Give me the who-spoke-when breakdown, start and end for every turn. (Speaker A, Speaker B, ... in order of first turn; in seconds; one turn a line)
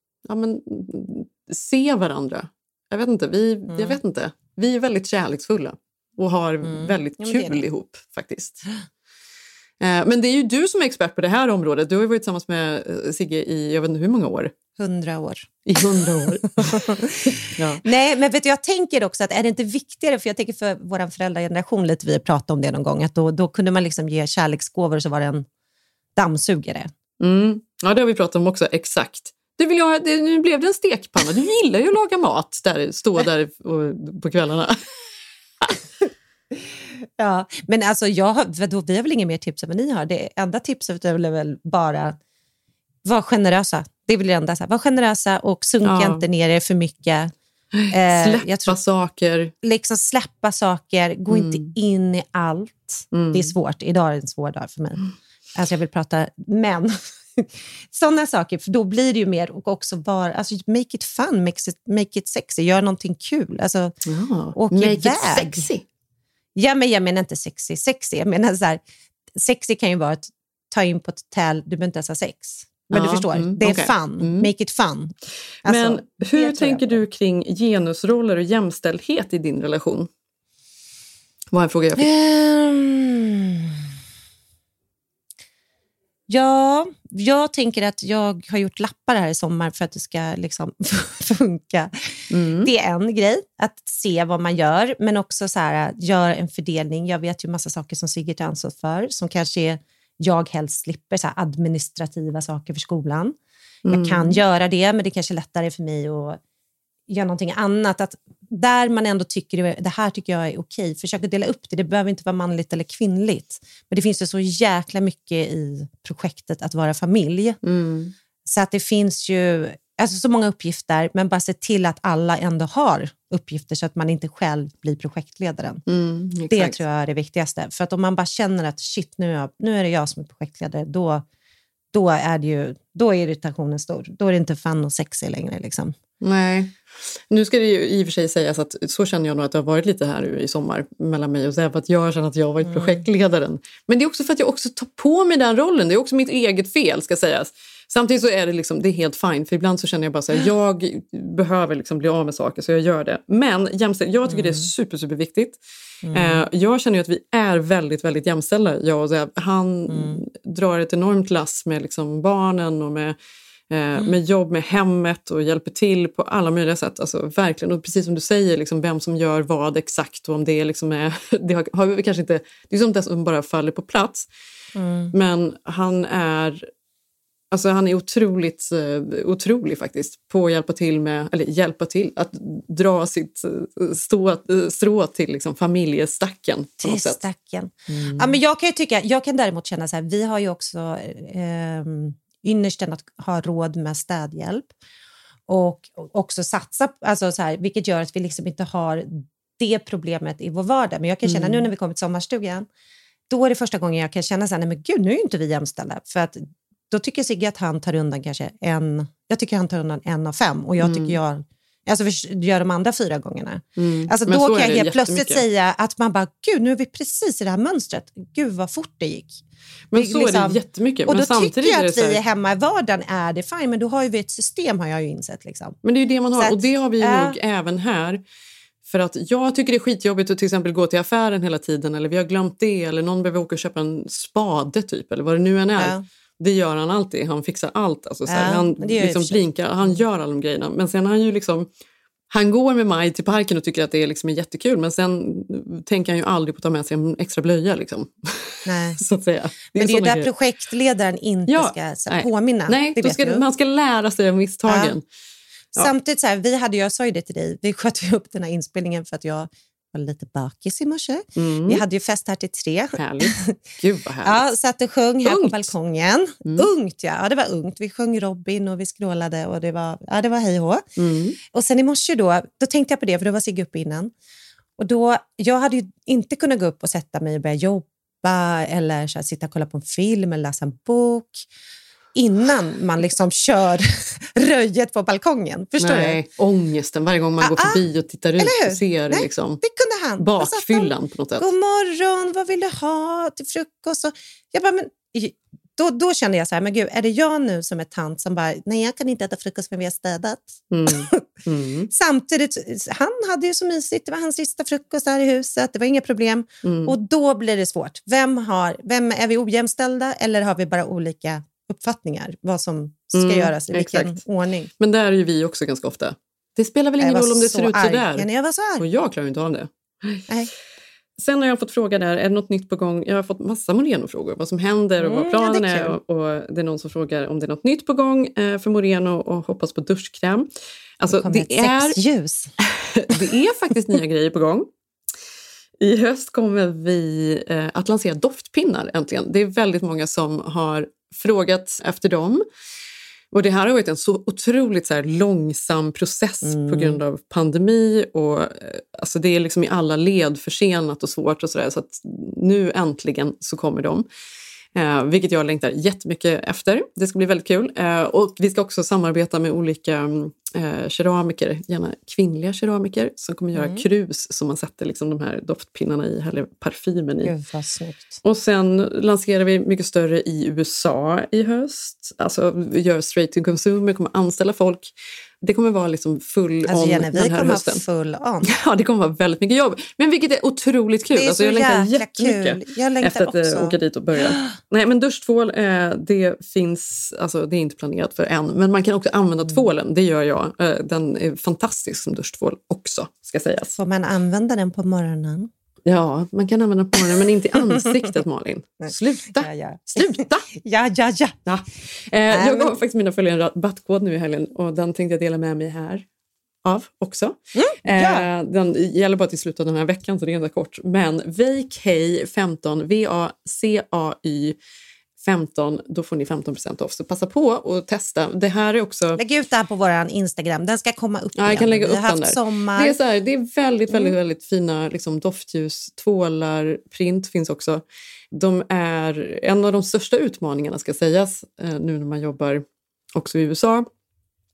Speaker A: 0.3-8.7
Speaker B: 3.7-4.0
Speaker B: 6.6-7.6
Speaker A: 9.8-14.5
Speaker B: 14.8-15.6
Speaker A: 15.7-17.8
Speaker B: 16.6-25.5
Speaker B: 26.2-26.9
Speaker A: 27.2-34.8
Speaker B: 36.6-42.2
Speaker B: 43.0-47.3
Speaker A: 45.8-46.2
Speaker A: 47.7-49.5
Speaker B: 47.9-48.8
Speaker B: 49.6-55.0
Speaker A: 51.3-51.7
Speaker A: 53.1-53.5
Speaker B: 55.5-64.0
Speaker A: 64.1-65.8
Speaker B: 64.5-65.7
Speaker B: 66.5-68.8
Speaker B: 69.3-75.1
Speaker A: 72.9-74.5
Speaker B: 75.7-77.0
Speaker A: 75.7-80.1
Speaker A: 81.5-82.1
Speaker B: 82.0-83.9
Speaker B: 86.3-106.4
Speaker A: 92.3-92.7
Speaker A: 103.8-104.4
Speaker B: 107.1-117.6
Speaker A: 117.6-118.1
Speaker B: 118.5-125.8
Speaker A: 125.9-126.8
Speaker B: 126.5-131.2
Speaker B: 131.9-135.9
Speaker A: 136.2-136.8
Speaker A: 137.3-155.6
Speaker B: 142.6-143.0
Speaker B: 154.3-154.7
Speaker B: 156.0-156.4
Speaker A: 156.1-163.2
Speaker B: 159.9-160.2
Speaker A: 163.7-174.3
Speaker B: 174.8-175.1
Speaker A: 175.1-176.7
Speaker A: 177.5-187.2
Speaker B: 186.8-194.7
Speaker A: 187.9-188.4
Speaker B: 195.5-202.7
Speaker A: 201.2-201.7
Speaker B: 203.3-219.4
Speaker A: 210.8-211.2
Speaker A: 213.8-215.4
Speaker A: 219.9-222.2
Speaker B: 219.9-225.8
Speaker A: 225.8-228.2
Speaker B: 226.4-227.4
Speaker A: 228.8-241.7
Speaker B: 235.8-236.0
Speaker B: 238.3-240.0
Speaker A: 242.3-250.3
Speaker B: 248.7-249.0
Speaker B: 249.8-253.4
Speaker A: 251.5-255.0
Speaker B: 254.7-255.0
Speaker B: 255.8-263.6
Speaker A: 261.4-261.8
Speaker A: 263.0-264.4
Speaker B: 264.2-270.9
Speaker A: 265.2-265.7
Speaker A: 271.0-271.4
Speaker B: 271.5-274.1
Speaker B: 274.8-281.5
Speaker B: 282.1-286.2
Speaker A: 285.8-289.6
Speaker B: 287.4-287.9
Speaker B: 288.4-301.2
Speaker A: 290.2-291.5
Speaker A: 300.7-301.9
Speaker B: 301.9-314.7
Speaker A: 306.6-306.9
Speaker A: 313.1-314.2
Speaker A: 314.8-318.3
Speaker B: 317.0-318.9
Speaker A: 318.8-320.3
Speaker A: 321.2-330.5
Speaker B: 325.0-326.0
Speaker A: 331.0-332.0
Speaker B: 331.1-332.5
Speaker A: 332.9-334.7
Speaker A: 335.8-342.4
Speaker A: 343.3-354.1
Speaker B: 346.4-347.0
Speaker A: 354.8-367.3
Speaker B: 363.6-363.8
Speaker B: 367.2-368.2
Speaker A: 368.2-377.8
Speaker B: 376.7-378.5
Speaker A: 378.4-393.8
Speaker B: 381.1-384.6
Speaker B: 393.8-395.5
Speaker A: 395.9-400.5
Speaker B: 398.9-401.4
Speaker A: 401.5-406.1
Speaker B: 402.3-402.8
Speaker A: 406.6-414.6
Speaker B: 407.6-408.3
Speaker A: 415.2-419.2
Speaker B: 419.2-423.0
Speaker A: 421.4-432.6
Speaker B: 423.9-424.2
Speaker A: 433.1-433.9